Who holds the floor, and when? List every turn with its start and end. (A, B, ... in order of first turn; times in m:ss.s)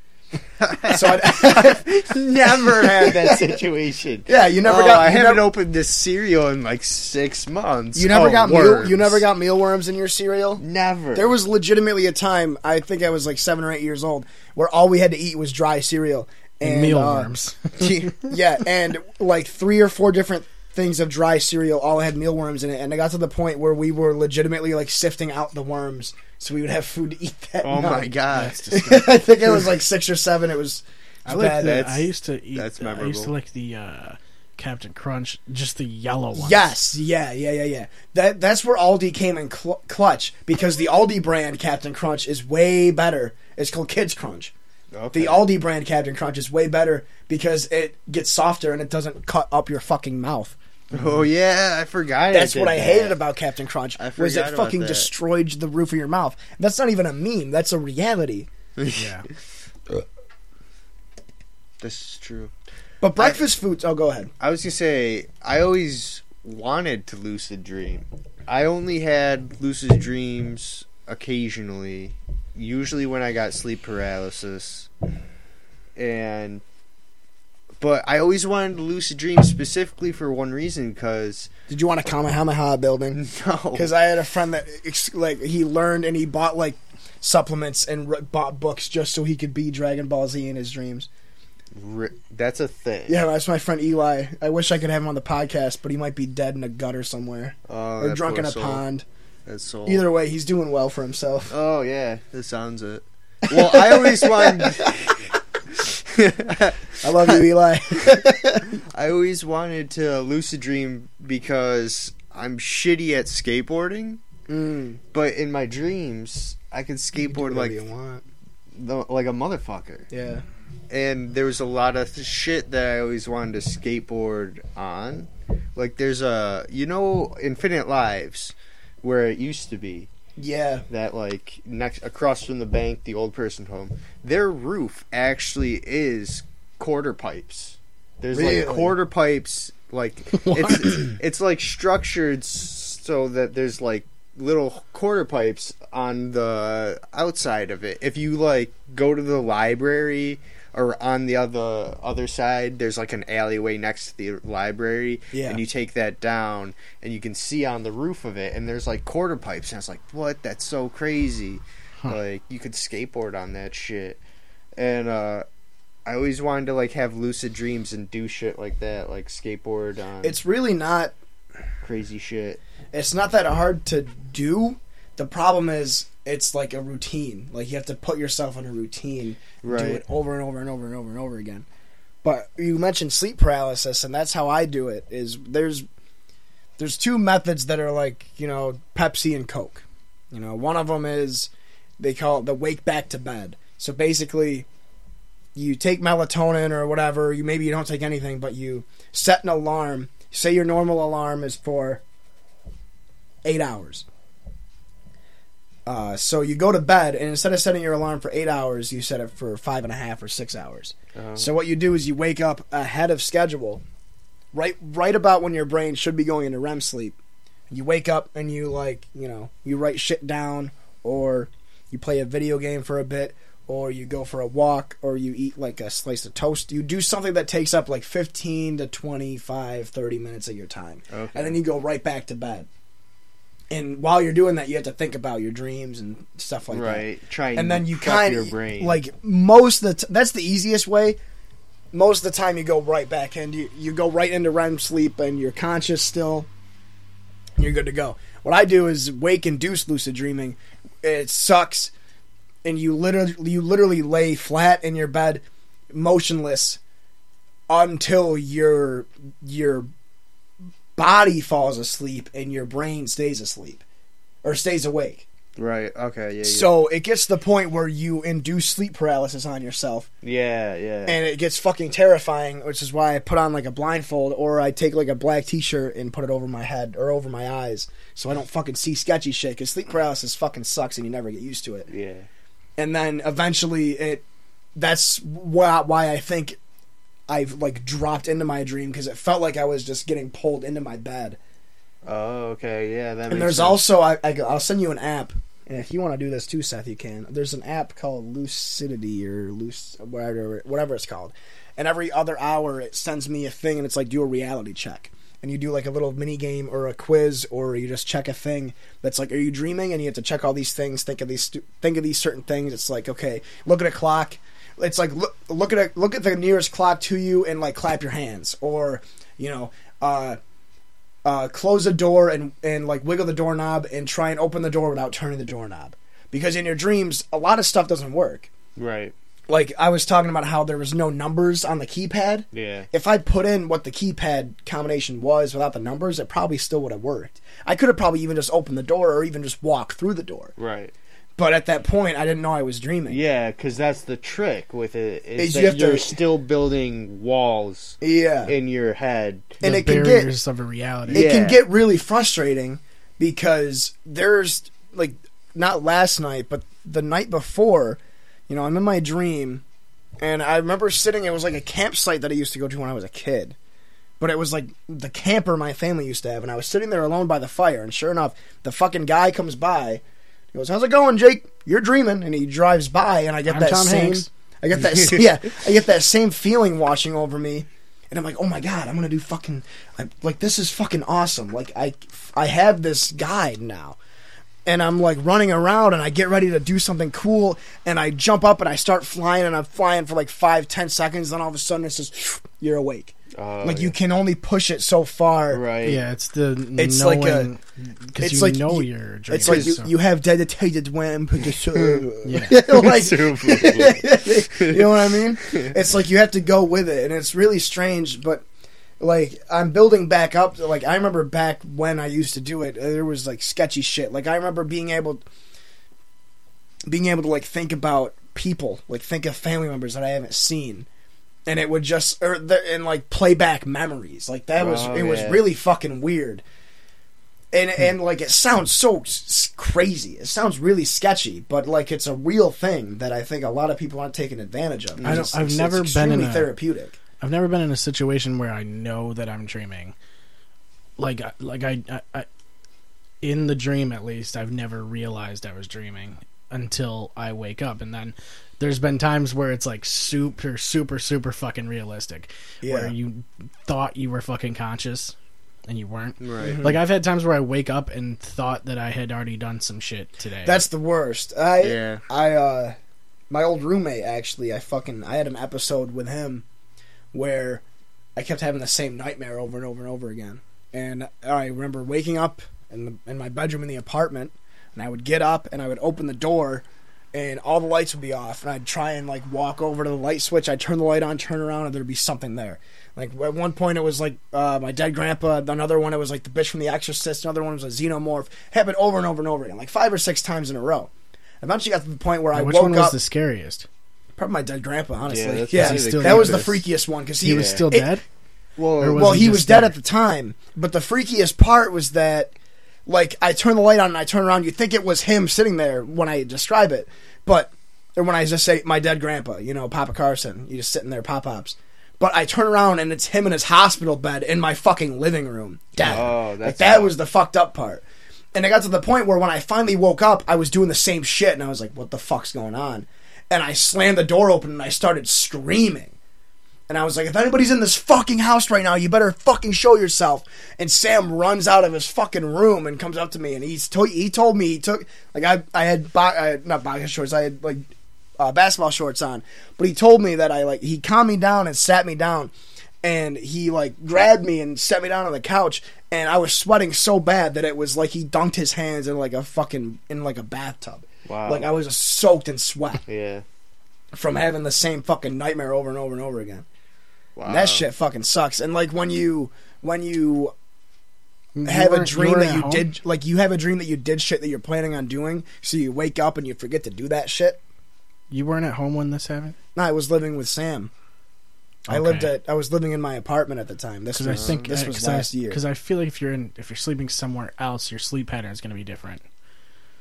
0:00.6-0:09.2 A
0:00.9-0:03.6 B
0:04.3-0:05.5 B
0:07.9-0:10.6 B
0:10.6-0:11.3 A
0:11.1-0:28.1 B
0:16.6-0:18.0 C
0:27.6-0:28.7 A
0:28.3-0:29.2 C
0:28.7-0:31.8 B
0:31.2-0:36.7 C
0:31.3-0:33.3 A
0:36.4-0:44.5 B
0:44.9-0:45.5 A
0:45.1-0:50.6 B
0:50.9-0:53.2 A
0:52.3-0:58.5 B
0:54.0-0:55.1 A
0:58.8-0:59.2 A
0:58.9-0:59.2 C
1:01.8-1:02.5 A
1:03.0-1:04.3 B
1:04.4-1:14.9 A
1:16.0-1:16.6 A
1:17.8-1:21.5 A
1:21.7-1:23.2 B
1:23.1-1:23.9 A
1:23.7-1:31.1 B
1:31.8-1:33.2 A
1:33.1-1:39.0 B
1:37.7-1:38.8 A
1:39.4-1:40.0 A
1:39.8-1:41.5 B
1:41.5-1:47.4 A
1:43.4-1:44.9 B
1:47.0-1:48.8 B
1:48.0-1:48.2 A
1:48.9-1:54.2 A
1:54.5-1:55.0 B
1:55.1-1:57.8 A
1:57.2-1:58.2 B
1:58.7-2:00.1 A
2:00.1-2:00.4 B
2:00.9-2:10.1 A
2:10.4-2:10.8 B
2:10.9-2:44.2 A
2:18.3-2:18.9 B
2:35.3-2:35.6 B
2:44.8-2:45.4 A
2:46.0-2:50.4 A
2:50.2-2:51.1 B
2:51.8-2:52.6 A
2:52.9-3:01.6 B
2:59.6-3:00.0 A
3:02.2-3:05.8 B
3:06.8-3:14.7 B
3:15.5-3:22.0 B
3:23.4-3:24.0 B
3:25.8-3:33.8 B
3:31.1-3:31.5 A
3:34.5-3:37.2 B
3:37.7-3:52.7 B
3:51.1-3:51.6 A
3:53.7-4:01.2 B
3:56.7-3:59.0 A
4:01.9-4:06.5 B
4:07.6-4:11.9 B
4:12.6-4:16.8 B
4:17.7-4:19.9 B
4:21.0-4:23.8 B
4:24.4-4:25.2 B
4:25.6-4:26.7 A
4:26.4-4:30.1 B
4:30.2-4:31.2 A
4:31.0-4:41.9 B
4:41.9-4:42.3 A
4:42.8-4:44.2 B
4:44.8-4:46.6 B
4:47.3-4:51.4 B
4:52.0-4:53.8 A
4:53.3-5:20.4 B
5:21.2-5:28.5 B
5:28.8-5:29.1 A
5:29.5-5:40.5 B
5:32.5-5:32.9 A
5:40.6-5:40.9 A
5:41.4-5:43.2 B
5:43.1-5:49.6 A
5:45.4-5:46.2 B
5:48.0-5:48.5 B
5:49.6-5:50.3 B
5:49.6-5:51.2 C
5:51.1-5:59.6 B
5:51.1-5:51.6 A
6:00.2-6:03.6 B
6:04.2-6:10.0 B
6:10.5-6:24.0 B
6:13.4-6:14.3 C
6:24.6-6:35.9 B
6:33.4-6:34.0 A
6:35.5-6:36.0 A
6:35.8-6:39.9 C
6:36.7-6:37.5 B
6:38.2-6:48.4 B
6:39.4-6:39.8 A
6:41.7-6:45.7 A
6:42.2-6:42.6 C
6:49.0-6:55.2 B
6:56.9-7:00.9 B
7:01.5-7:06.4 B
7:04.6-7:05.4 A
7:07.5-7:17.0 B
7:15.0-7:15.3 A
7:15.0-7:16.5 C
7:17.2-7:19.9 C
7:21.0-7:22.3 C
7:23.2-7:35.1 C
7:32.6-7:32.9 B
7:35.7-7:40.6 C
7:36.2-7:36.8 A
7:36.4-7:36.8 B
7:40.4-7:42.8 B
7:41.6-7:42.0 A
7:43.3-7:46.4 B
7:47.1-7:47.6 B
7:48.2-8:13.0 B
8:12.3-8:13.7 C
8:14.2-8:18.0 B
8:15.0-8:16.6 A
8:15.5-8:16.5 C
8:17.2-8:18.0 C
8:17.3-8:17.6 A
8:18.6-8:19.4 A
8:18.8-8:19.7 C
8:18.9-8:22.3 B
8:22.8-8:45.9 B
8:35.8-8:36.9 A
8:46.7-9:02.3 B
9:02.8-9:12.8 B
9:11.0-9:11.4 A
9:12.9-9:13.2 A
9:13.9-9:16.4 B
9:17.2-9:17.6 A
9:17.2-9:20.3 B
9:21.4-9:22.7 C
9:21.4-9:27.4 B
9:28.1-9:29.3 C
9:29.6-9:30.7 B
9:31.7-9:32.1 C
9:31.7-9:35.4 B
9:33.9-9:39.0 C
9:34.1-9:34.5 A